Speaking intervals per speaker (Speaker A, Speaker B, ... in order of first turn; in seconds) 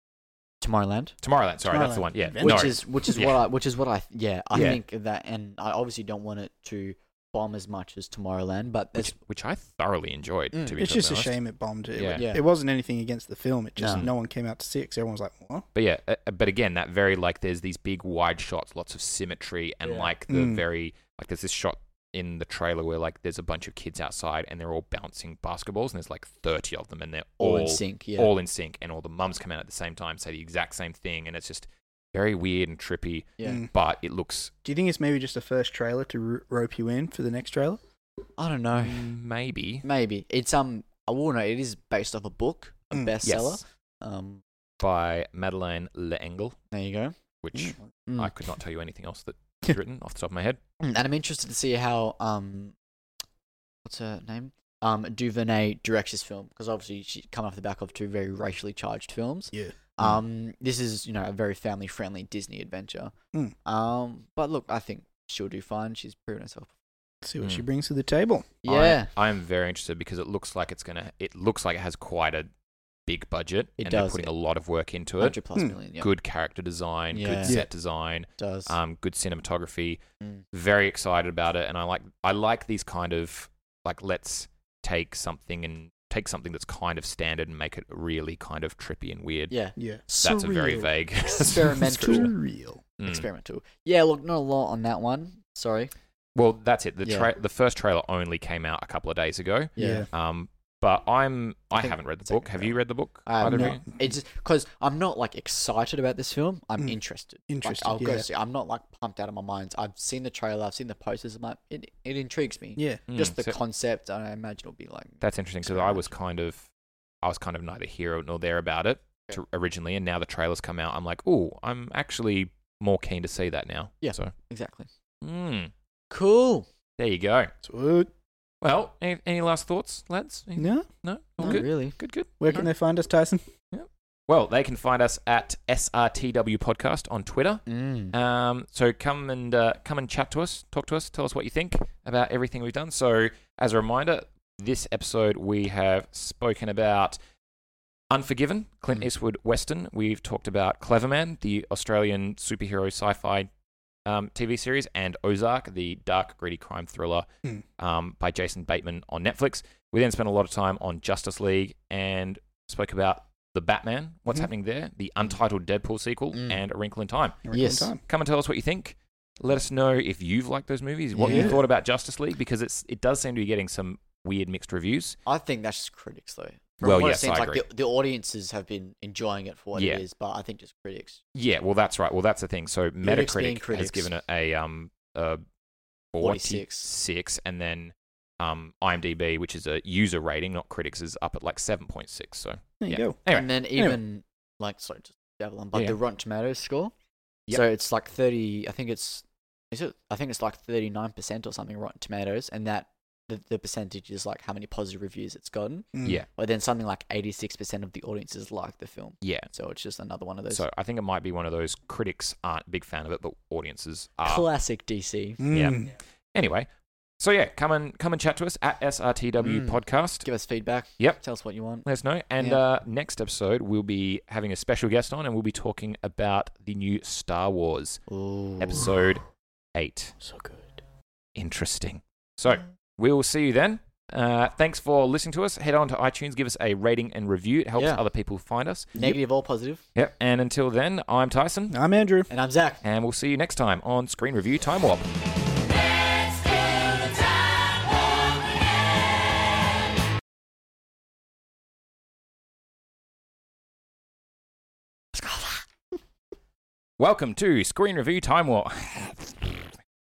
Speaker A: 0.6-1.2, 2.4-9.1, 12.1-12.4, 13.8-14.1, 19.8-20.1, 27.4-28.3, 33.4-33.6, 38.4-39.1, 39.8-44.4, 46.7-48.3, 50.8-52.8, 53.8-63.1, 63.6-66.7, 68.6-69.1, 73.8-74.3, 75.2-76.1, 77.1-77.7, 78.4-78.8, 89.5-92.3, 93.0-95.9, 97.0-97.3, 99.8-100.1, 101.7-116.1, 124.0-124.9, 126.1-126.7, 131.4-132.0, 137.7-138.1, 166.3-166.6, 167.5-167.9, 171.1-171.6, 175.2-181.2, 183.0-184.1, 186.2-186.9, 193.3-196.9, 197.5-210.6, 214.2-215.4, 219.4-221.8, 228.1-228.9, 237.8-238.0, 238.9-239.8, 242.3-242.8, 255.1-255.6
Speaker B: 1.2-3.4, 4.5-4.8, 8.9-11.3, 11.9-12.2, 15.7-34.5, 38.8-39.8, 43.2-43.6, 44.8-46.5, 47.4-50.6, 68.7-72.5, 73.1-75.4, 76.0-80.0, 80.5-89.5, 90.2-92.3, 96.3-103.8, 113.1-113.5, 115.2-116.7, 117.2-124.3, 125.2-125.7, 127.0-127.5, 128.6-132.7, 133.7-147.2, 148.1-153.5, 154.0-157.3, 157.8-167.5, 168.0-175.2, 176.8-177.6, 179.7-180.0, 181.3-185.4, 186.1-193.5, 209.2-209.5, 210.5-214.4, 215.5-216.7, 217.2-220.2, 221.8-228.0, 228.6-229.2, 229.7-230.2, 231.3-239.1, 239.9-241.8, 242.8-245.1, 257.0-259.6
Speaker C: 1.7-3.2, 10.8-15.7, 20.3-20.6, 34.6-37.8, 67.2-68.6, 89.8-90.0, 91.8-92.8, 99.8-100.1, 103.4-103.8, 107.5-108.3, 127.6-128.1, 130.6-130.9, 132.4-133.4, 167.4-168.0, 171.2-171.6, 192.8-193.2, 205.9-206.2, 215.4-215.9, 230.2-230.7, 241.7-242.3